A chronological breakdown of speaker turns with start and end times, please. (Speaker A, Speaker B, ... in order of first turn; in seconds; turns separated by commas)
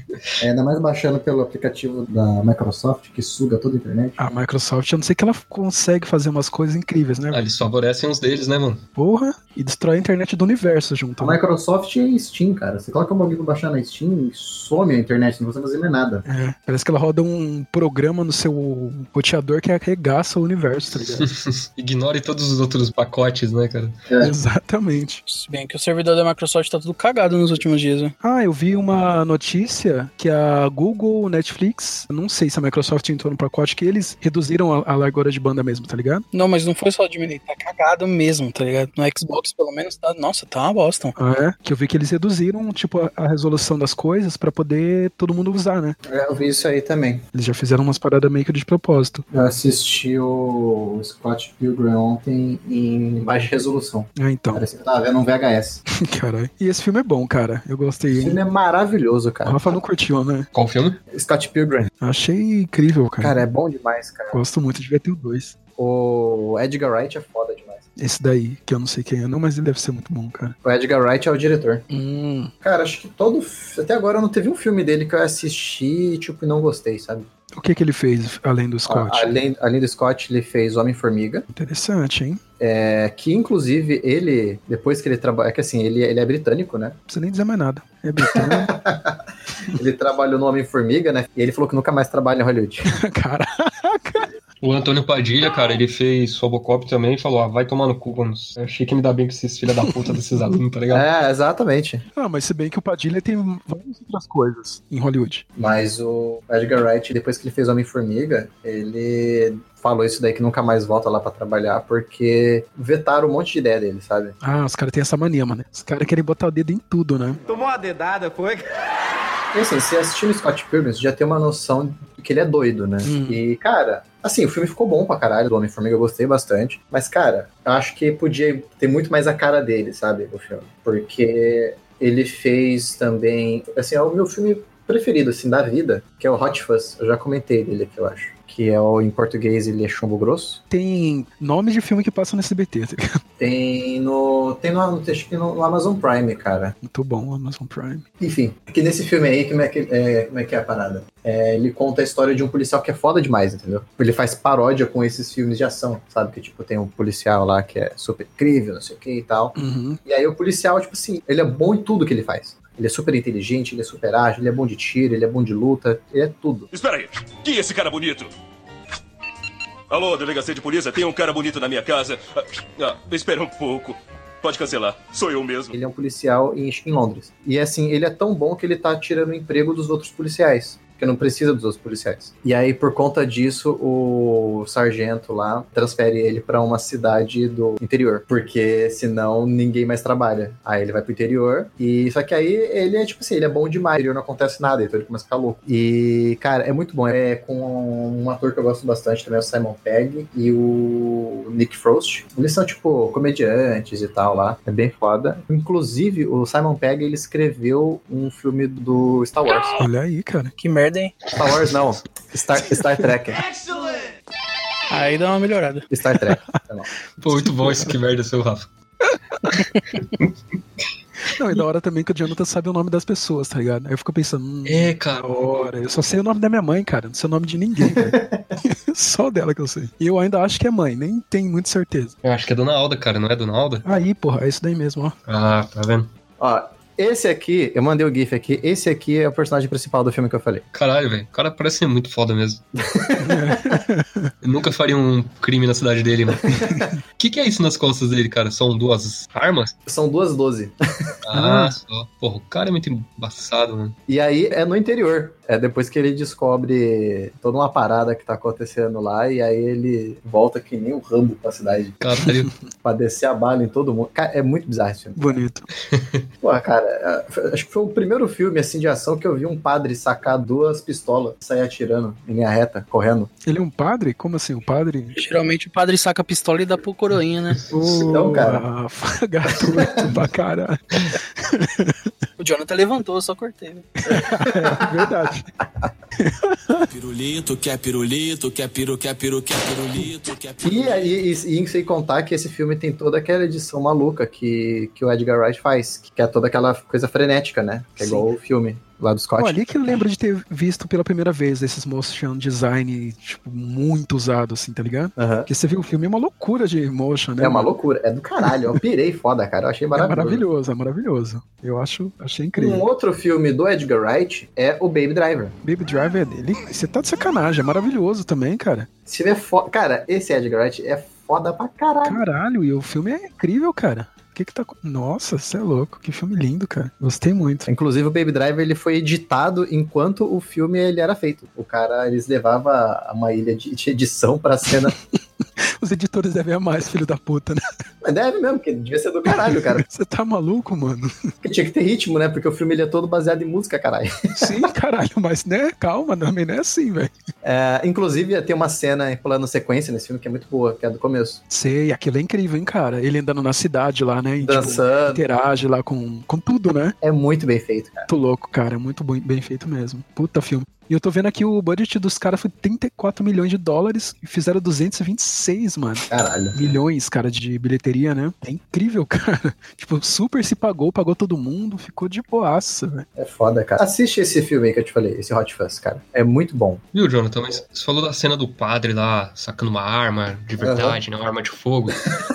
Speaker A: 0.4-4.2, Speaker B: 4.2-7.4, Speaker C: 7.3-8.8, Speaker B: 9.0-11.4, Speaker A: 11.2-16.2, Speaker B: 16.3-21.3, Speaker C: 21.0-24.0, Speaker A: 24.1-24.3, Speaker B: 24.2-25.2, Speaker D: 25.3-28.1, Speaker B: 28.2-36.2, Speaker D: 36.3-41.1, Speaker B: 41.2-46.0, Speaker A: 46.1-47.2, Speaker B: 47.3-49.2, Speaker A: 49.3-55.8, Speaker B: 54.2-54.6, Speaker B: 56.1-58.4, Speaker A: 58.1-59.8, Speaker B: 59.5-60.5, Speaker C: 60.5-61.0, Speaker A: 61.1-61.9, Speaker B: 62.0-63.4, Speaker A: 63.2-64.4, Speaker B: 64.3-65.5, Speaker A: 65.8-67.9, Speaker B: 68.0-70.6, Speaker A: 70.7-71.8, Speaker B: 71.9-72.5, Speaker A: 72.6-77.3, Speaker B: 77.6-79.3, Speaker A: 78.9-81.5, Speaker B: 81.5-82.4, Speaker A: 82.6-87.0, Speaker B: 87.1-88.7, Speaker A: 88.2-89.2, Speaker A: 89.7-92.9, Speaker B: 92.9-94.3, Speaker C: 94.6-101.1, Speaker A: 100.9-102.0, Speaker B: 102.2-105.5, Speaker A: 105.6-114.4, Speaker B: 114.4-117.4, Speaker A: 117.5-118.6, Speaker A: 119.5-140.6, Speaker B: 123.0-123.4, Speaker B: 140.7-143.2, Speaker A: 143.4-146.8, Speaker B: 146.8-148.0, Speaker A: 148.2-166.7, Speaker B: 159.6-160.0, Speaker E: 166.7-168.3, Speaker E: 169.9-175.8, Speaker A: 175.8-209.7, Speaker D: 209.4-209.8, Speaker B: 209.8-210.5, Speaker D: 210.6-211.3, Speaker A: 211.4-213.4, Speaker D: 214.9-215.8, Speaker A: 215.9-216.9, Speaker C: 217.2-218.7, Speaker B: 217.3-217.9, Speaker B: 221.3-232.1, Speaker C: 224.7-225.3, Speaker A: 227.8-228.6, Speaker C: 232.2-233.9, Speaker B: 233.8-235.2, Speaker C: 235.3-236.1, Speaker A: 236.4-240.6, Speaker C: 240.7-242.6, Speaker A: 242.8-243.8, Speaker B: 243.2-244.3, Speaker C: 244.4-246.5, Speaker A: 246.5-246.8, Speaker C: 247.2-249.7, Speaker A: 249.9-251.1, Speaker C: 251.2-254.0, Speaker B: 251.3-251.7, Speaker A: 254.1-262.0, Speaker C: 262.0-262.5, Speaker B: 262.2-262.5, Speaker A: 262.8-265.4, Speaker B: 265.2-265.7, Speaker C: 265.9-266.3, Speaker A: 266.4-273.3, Speaker B: 273.4-275.2, Speaker D: 275.1-277.6, Speaker B: 277.7-282.1, Speaker A: 277.8-278.6, Speaker A: 279.8-280.2, Speaker D: 282.4-283.9, Speaker B: 284.0-285.5, Speaker A: 284.1-285.1, Speaker B: 286.2-286.9, Speaker F: 286.9-291.1, Speaker A: 290.6-299.6, Speaker B: 298.0-298.3, Speaker B: 299.4-307.7, Speaker A: 305.2-305.5, Speaker A: 307.4-310.4, Speaker B: 309.9-312.8, Speaker A: 312.6-315.6, Speaker B: 315.6-318.9, Speaker A: 319.1-322.2, Speaker B: 322.1-327.7, Speaker A: 327.7-334.9, Speaker B: 334.8-337.6, Speaker A: 338.0-339.8, Speaker B: 339.3-341.2, Speaker A: 341.4-344.7, Speaker B: 344.3-347.1, Speaker A: 347.4-351.4, Speaker B: 351.5-356.9, Speaker A: 354.4-355.2, Speaker A: 357.0-358.1, Speaker B: 358.1-373.1, Speaker A: 366.1-366.8, Speaker A: 373.2-376.8, Speaker C: 376.9-382.1, Speaker A: 380.6-381.0